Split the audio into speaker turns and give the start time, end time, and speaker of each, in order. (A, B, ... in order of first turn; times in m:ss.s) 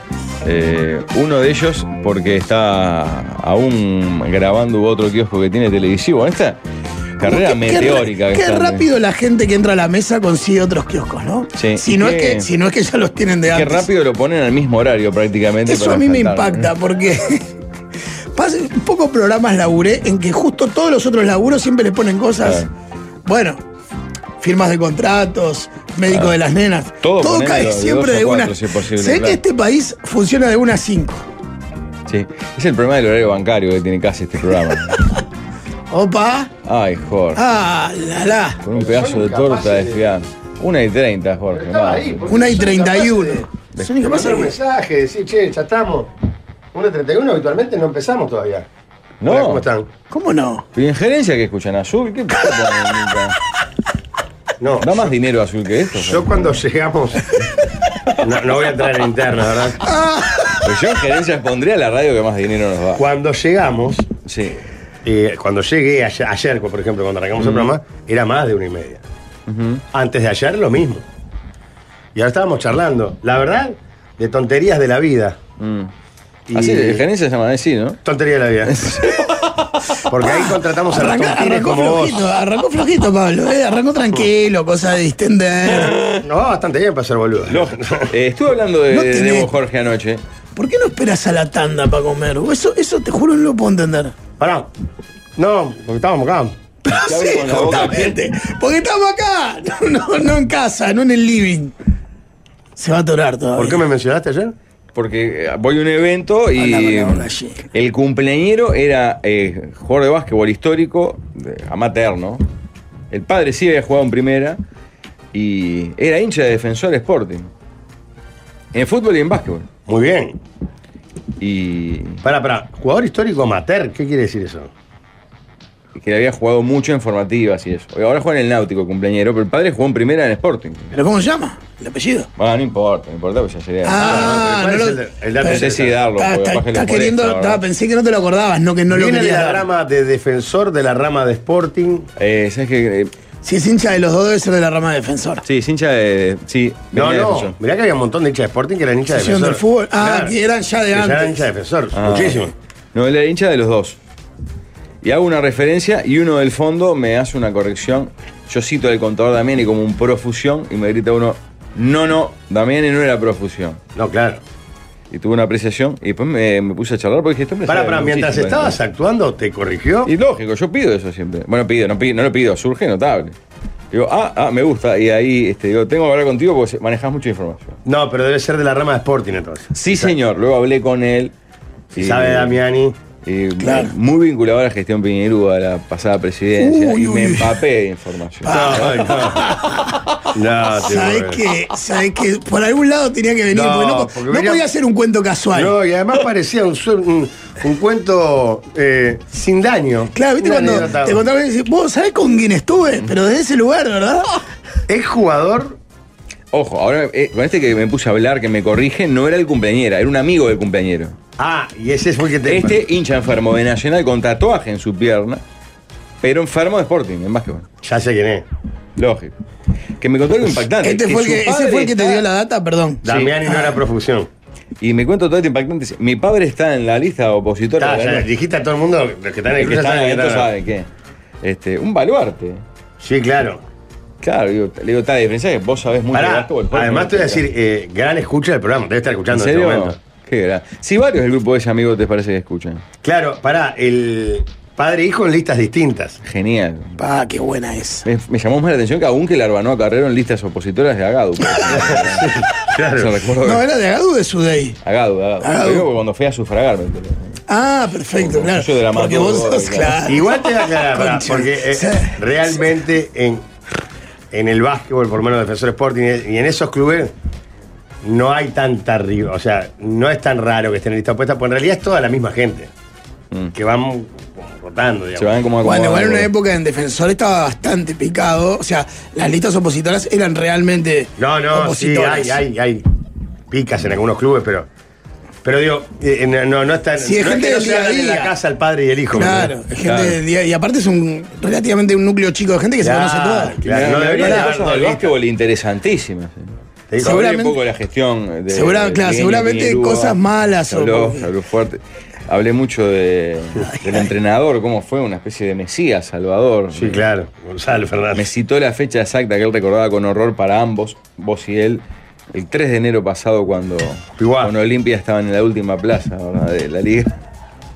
0:00.4-0:06.6 A
0:07.2-0:08.9 A
0:07.2-0:13.9 B
0:11.6-0:12.5 A
0:13.5-0:16.7 A
0:15.7-0:17.5 B
0:18.4-0:22.6 B
0:22.4-0:22.7 A
0:23.3-0:23.6 B
0:24.4-0:31.2 B
0:26.1-0:26.4 A
0:27.0-0:29.4 A
0:32.1-0:35.0 A
0:35.9-0:36.5 B
0:36.6-0:37.4 A
0:37.4-0:38.6 B
0:38.6-0:42.2 A
0:38.7-0:40.1 C
0:41.5-0:43.5 C
0:42.3-0:44.5 B
0:44.0-0:46.1 C
0:46.7-0:48.7 C
0:49.2-0:49.7 A
0:49.2-0:49.9 C
0:50.1-0:50.6 B
0:50.8-0:53.4 A
0:54.6-0:55.1 C
0:54.8-0:56.6 A
0:56.0-0:57.3 C
0:58.2-0:59.8 C
0:59.8-1:00.7 B
1:00.6-1:03.0 A
1:03.0-1:04.1 C
1:04.3-1:04.6 A
1:05.0-1:09.0 C
1:07.4-1:07.7 A
1:09.5-1:09.8 A
1:09.9-1:11.1 C
1:12.2-1:15.4 C
1:15.6-1:15.9 A
1:16.5-1:17.0 C
1:16.5-1:18.0 A
1:18.0-1:19.0 C
1:18.6-1:19.7 A
1:20.1-1:22.3 C
1:20.2-1:26.0 B
1:25.8-1:26.2 A
1:26.2-1:28.1 C
1:27.5-1:30.2 A
1:28.9-1:29.5 B
1:30.6-1:34.1 B
1:34.4-1:34.7 C
1:35.4-1:36.6 C
1:36.9-1:41.7 B
1:37.1-1:38.2 A
1:42.8-1:43.8 B
1:43.6-1:44.6 C
1:45.0-1:52.4 A
1:46.6-1:47.6 B
1:53.1-1:54.6 A
1:55.3-1:57.5 A
1:58.7-1:59.7 A
1:59.9-2:00.4 C
2:01.4-2:02.2 A
2:02.2-2:04.7 C
2:06.0-2:10.9 A
2:10.9-2:12.3 B
2:12.4-2:14.4 A
2:13.8-2:15.7 B
2:14.0-2:16.0 C
2:15.5-2:17.6 A
2:16.2-2:19.6 B
2:18.9-2:22.1 C
2:22.2-2:23.1 A
2:23.4-2:25.4 B
2:25.4-2:27.6 A
2:26.9-2:30.4 C
2:29.1-2:31.4 B
2:30.9-2:32.5 C
2:31.9-2:34.0 A
2:35.0-2:43.8 A
2:44.0-2:44.4 C
2:45.1-2:48.8 A
2:47.7-2:50.1 C
2:50.0-2:53.4 A
2:53.9-2:57.8 A
2:57.9-3:00.1 C
2:59.8-3:01.3 A
3:01.9-3:02.6 A
3:02.0-3:03.0 C
3:03.2-3:09.4 A
3:03.6-3:03.9 B
3:06.6-3:07.6 B
3:08.4-3:10.0 B
3:08.5-3:09.6 C
3:10.3-3:11.4 C
3:10.8-3:15.8 B
3:13.5-3:14.7 C
3:15.5-3:21.2 C
3:20.2-3:24.4 B
3:24.9-3:25.8 C
3:26.5-3:31.2 A
3:31.4-3:32.8 C
3:32.5-3:35.4 A
3:36.2-3:37.7 A
3:37.8-3:38.5 C
3:39.0-3:39.3 A
3:40.0-3:42.2 A
3:40.8-3:43.6 B
3:43.0-3:44.3 C
3:43.1-3:43.4 A
3:44.8-3:48.3 A
3:47.8-3:50.5 C
3:49.6-3:50.9 A
3:51.4-3:52.6 A
3:53.0-3:53.6 C
3:54.2-3:57.4 A
3:56.1-4:00.0 C
3:59.3-4:02.8 A
4:03.0-4:06.2 C
4:06.2-4:07.0 A
4:07.0-4:08.0 B
4:08.0-4:13.7 A
4:11.7-4:13.2 C
4:13.4-4:14.8 B
4:14.8-4:17.4 A
4:15.4-4:15.9 B
4:17.5-4:22.2 B
4:18.2-4:20.2 A
4:20.1-4:23.4 C
4:24.3-4:27.1 C
4:28.0-4:32.7 C
4:33.6-4:35.4 C
4:35.2-4:36.3 A
4:35.6-4:42.4 B
4:41.2-4:42.8 C
4:43.5-4:44.7 C
4:45.4-4:49.5 C
4:47.0-4:48.3 B
4:49.1-4:53.6 B
4:49.2-4:50.2 A
4:52.8-4:55.2 C
4:53.6-5:07.0 A
4:54.2-4:54.5 B
4:56.9-4:57.2 C
4:57.0-4:57.6 B
4:58.5-5:01.3 B
5:03.7-5:04.0 B
5:06.7-5:08.3 C
5:08.2-5:17.2 A
5:14.2-5:14.5 C